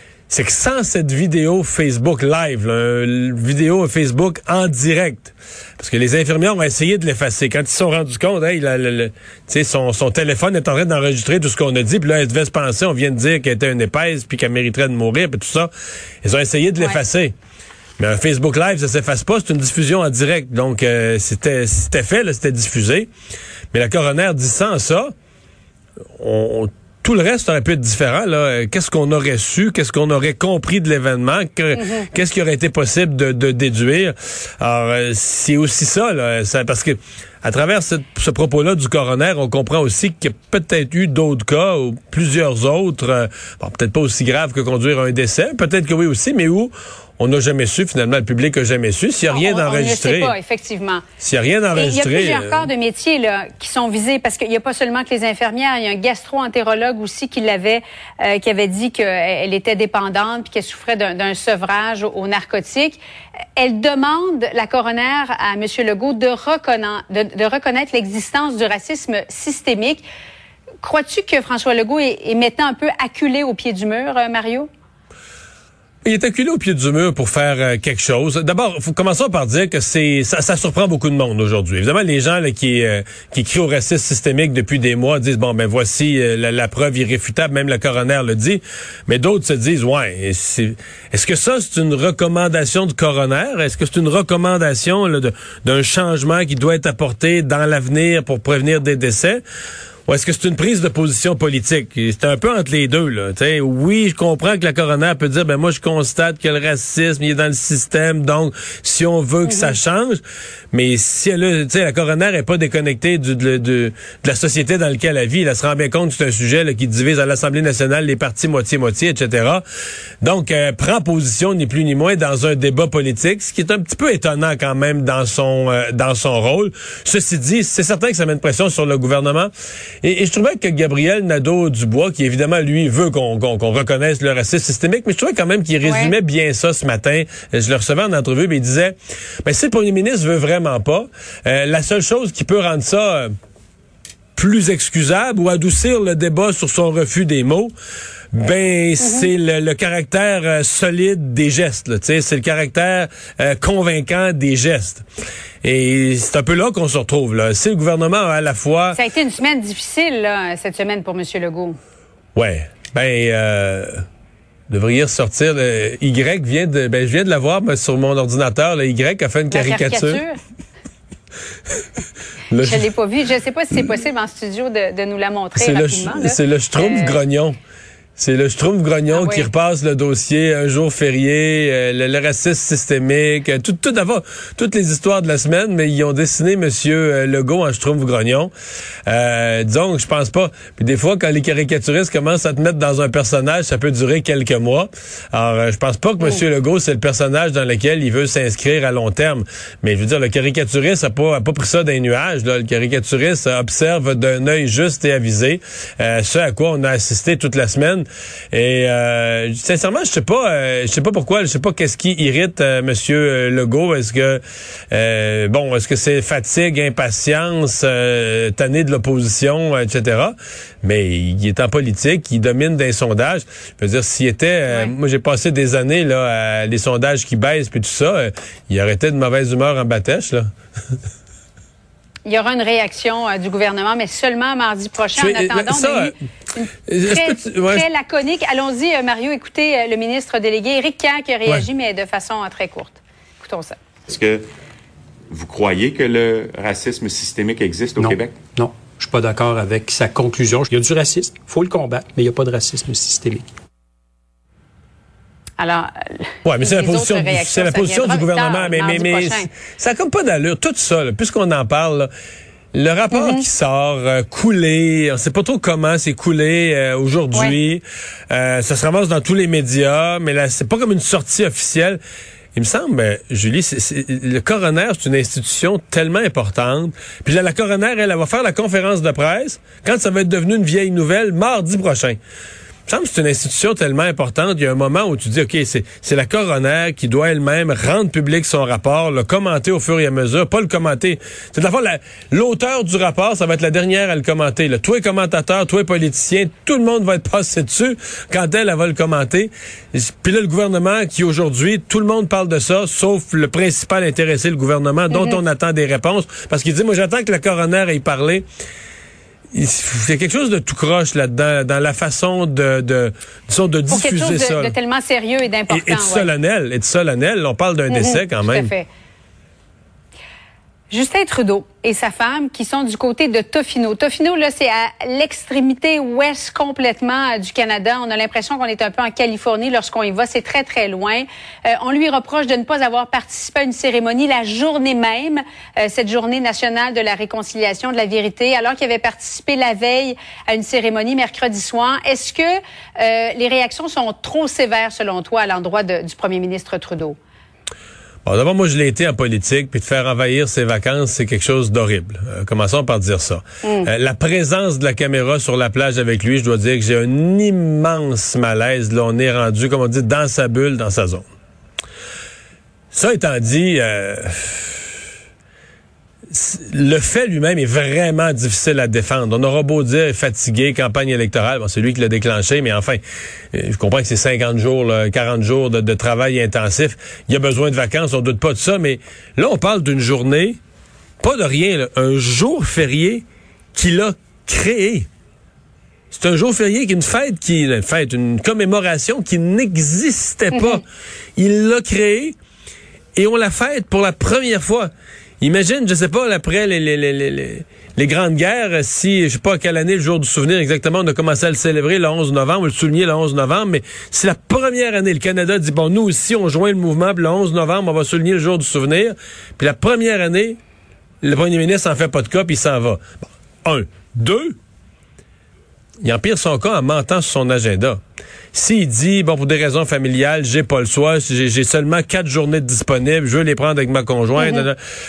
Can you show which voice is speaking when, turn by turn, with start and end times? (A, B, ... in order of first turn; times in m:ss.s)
0:00.3-0:15.7 A
0:16.2-0:17.3 A
0:18.0-0:23.1 A
0:23.7-0:25.1 A
0:26.2-0:50.3 A
0:31.7-0:32.1 B
0:49.3-0:51.0 B
0:51.2-0:52.7 A
0:51.7-1:03.0 B
1:03.6-1:10.0 B
1:10.8-1:14.7 B
1:16.0-1:39.4 A
1:40.1-1:50.2 A
1:49.4-1:49.8 B
1:50.7-1:59.6 A
2:00.2-2:09.5 A
2:10.0-2:23.3 A
2:15.8-2:16.1 B
2:24.4-2:27.7 A
2:28.3-2:35.0 A
2:29.0-2:29.3 B
2:35.6-2:39.0 A
2:38.9-2:41.8 B
2:42.3-2:43.9 A
2:44.7-2:50.2 A
2:49.5-2:50.4 B
2:52.5-2:52.9 A
2:52.6-2:57.2 B
2:55.5-2:57.6 A
2:58.2-3:08.5 A
2:59.1-2:59.5 B
3:09.1-3:50.5 A
3:52.2-4:03.8 B
3:55.2-3:56.1 A
3:56.9-3:57.8 A
4:04.1-4:04.5 C
4:05.3-4:08.4 C
4:08.6-4:13.4 D
4:15.6-4:19.5 B
4:16.4-4:22.1 A
4:22.7-4:32.0 A
4:23.1-4:23.4 B
4:32.5-4:42.2 A
4:42.9-5:08.4 A
5:05.1-5:05.4 B
5:09.5-5:14.7 A
5:13.9-5:16.3 B
5:15.7-5:18.7 A
5:17.9-5:18.9 B
5:20.9-5:47.2 B
5:48.2-6:01.3 A
5:53.6-5:53.9 B
6:02.9-6:04.9 A
6:06.3-6:13.0 A
6:13.5-6:20.6 A
6:21.2-6:23.2 A
6:23.7-6:25.1 A
6:26.1-6:30.8 A
6:30.5-6:30.8 B
6:31.4-6:32.3 A
6:33.2-6:34.9 A
6:35.4-6:50.6 A
6:51.2-6:54.5 A
6:56.0-6:58.0 A
6:58.5-7:04.8 A
7:04.4-7:04.6 B